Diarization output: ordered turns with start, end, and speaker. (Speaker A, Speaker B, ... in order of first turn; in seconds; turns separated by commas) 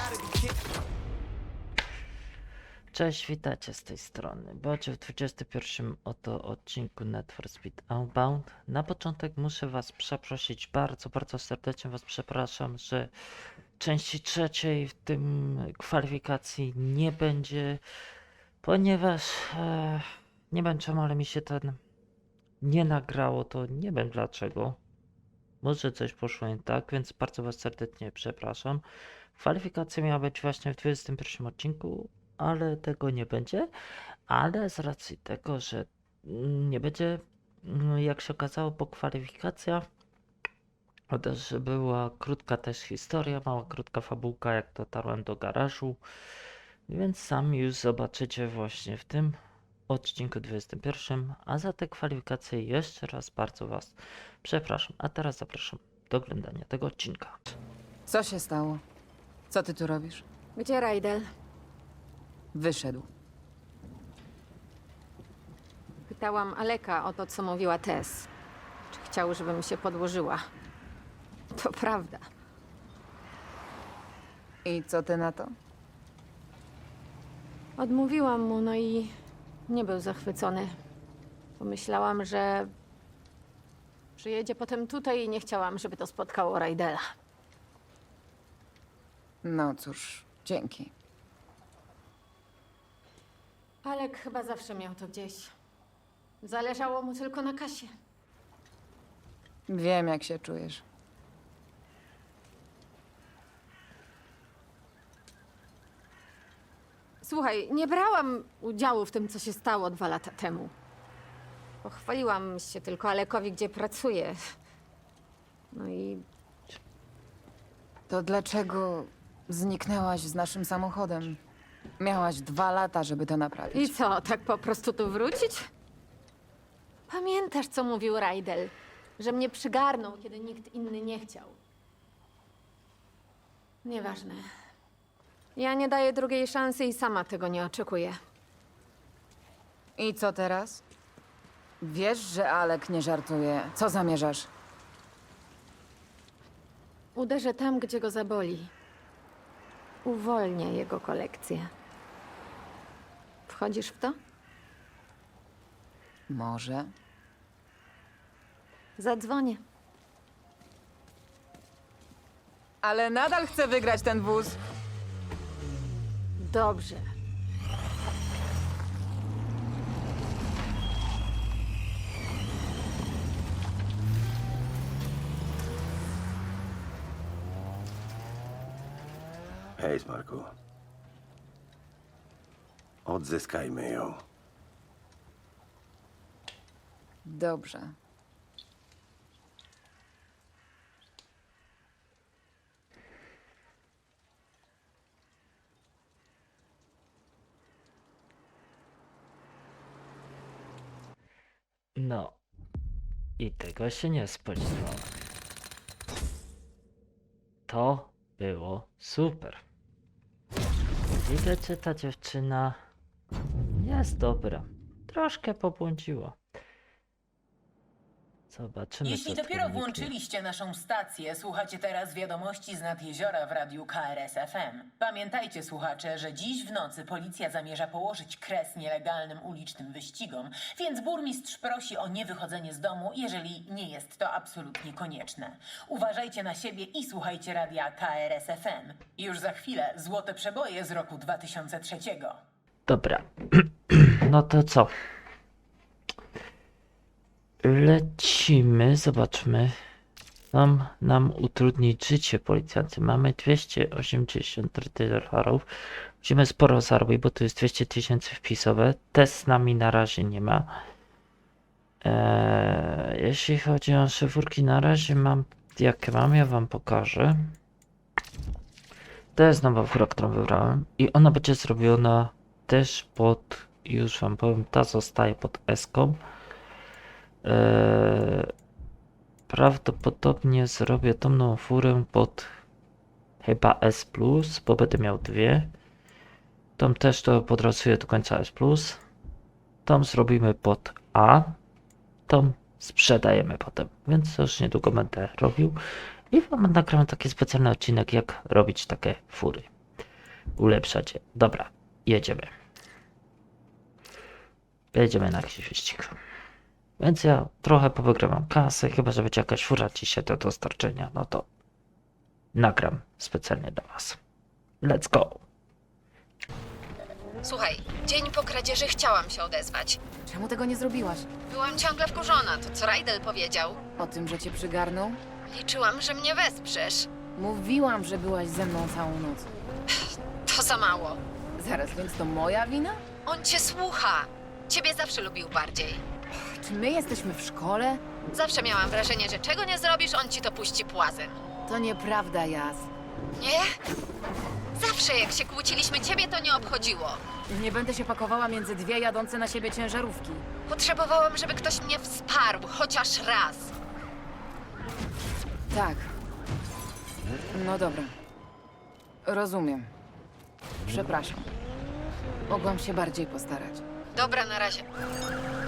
Speaker A: 2.9-13.1, Speaker A: 13.8-17.8, Speaker A: 18.6-21.8, Speaker A: 22.6-24.8, Speaker A: 25.6-28.8, Speaker A: 29.4-33.7, Speaker A: 34.3-39.8, Speaker A: 41.1-46.0, Speaker A: 46.9-49.4, Speaker A: 49.9-57.4, Speaker B: 58.1-58.8, Speaker B: 59.5-60.2, Speaker C: 60.6-61.2, Speaker B: 62.5-63.1, Speaker C: 66.2-68.2, Speaker D: 66.2-68.2, Speaker C: 69.0-70.4, Speaker C: 71.6-72.2, Speaker B: 74.7-75.5, Speaker C: 77.8-79.1, Speaker C: 79.7-80.7, Speaker C: 81.6-82.7, Speaker C: 84.2-87.0, Speaker B: 89.4-90.9, Speaker D: 93.9-95.5, Speaker C: 93.9-95.5, Speaker C: 96.4-97.9, Speaker D: 97.4-97.8, Speaker B: 99.7-100.8, Speaker C: 107.3-110.7, Speaker D: 107.3-107.8, Speaker D: 109.2-110.2, Speaker D: 111.8-113.0, Speaker C: 112.1-114.3, Speaker C: 115.8-116.2, Speaker B: 118.1-121.4, Speaker B: 122.0-123.9, Speaker C: 123.7-125.6, Speaker C: 127.1-131.6, Speaker C: 133.8-134.4, Speaker C: 135.6-138.1, Speaker D: 136.1-136.4, Speaker D: 137.7-138.1, Speaker B: 140.0-140.8, Speaker B: 141.8-144.5, Speaker C: 147.2-148.7, Speaker D: 147.4-148.6, Speaker C: 150.1-151.7, Speaker C: 153.5-154.1, Speaker B: 156.3-156.9, Speaker C: 159.0-159.6, Speaker B: 162.8-164.6, Speaker C: 166.4-167.1, Speaker E: 179.8-180.5, Speaker E: 183.1-184.2, Speaker B: 187.3-187.9, Speaker A: 202.0-202.4, Speaker A: 203.4-205.1, Speaker A: 207.7-209.6, Speaker A: 211.2-212.8, Speaker A: 213.8-216.4, Speaker A: 218.5-220.1, Speaker F: 219.0-242.4, Speaker A: 242.9-244.9, Speaker A: 247.6-249.8, Speaker A: 250.5-255.6, Speaker A: 256.2-260.7, Speaker A: 262.0-267.6, Speaker A: 269.4-276.2, Speaker A: 277.4-278.5, Speaker A: 279.5-282.5, Speaker A: 283.4-285.7, Speaker A: 286.8-289.0, Speaker A: 289.9-291.6, Speaker A: 292.3-295.8, Speaker A: 296.3-299.7, Speaker A: 300.6-302.5, Speaker A: 304.9-306.2, Speaker A: 307.0-311.5, Speaker A: 312.5-314.2, Speaker A: 314.8-315.4, Speaker D: 317.4-320.0, Speaker B: 320.2-321.3, Speaker D: 321.5-323.8, Speaker B: 324.0-325.2, Speaker D: 325.4-327.1, Speaker B: 327.4-329.5, Speaker D: 330.5-331.2, Speaker B: 331.6-333.0, Speaker D: 333.3-336.0, Speaker B: 336.4-338.0, Speaker D: 338.3-341.4, Speaker B: 341.7-342.9, Speaker D: 343.4-343.8, Speaker D: 344.8-347.2, Speaker B: 347.5-350.4, Speaker D: 350.7-353.7, Speaker B: 355.7-356.1, Speaker B: 357.5-358.1, Speaker B: 359.2-359.9, Speaker B: 360.9-361.5, Speaker B: 362.5-363.8, Speaker D: 364.1-364.9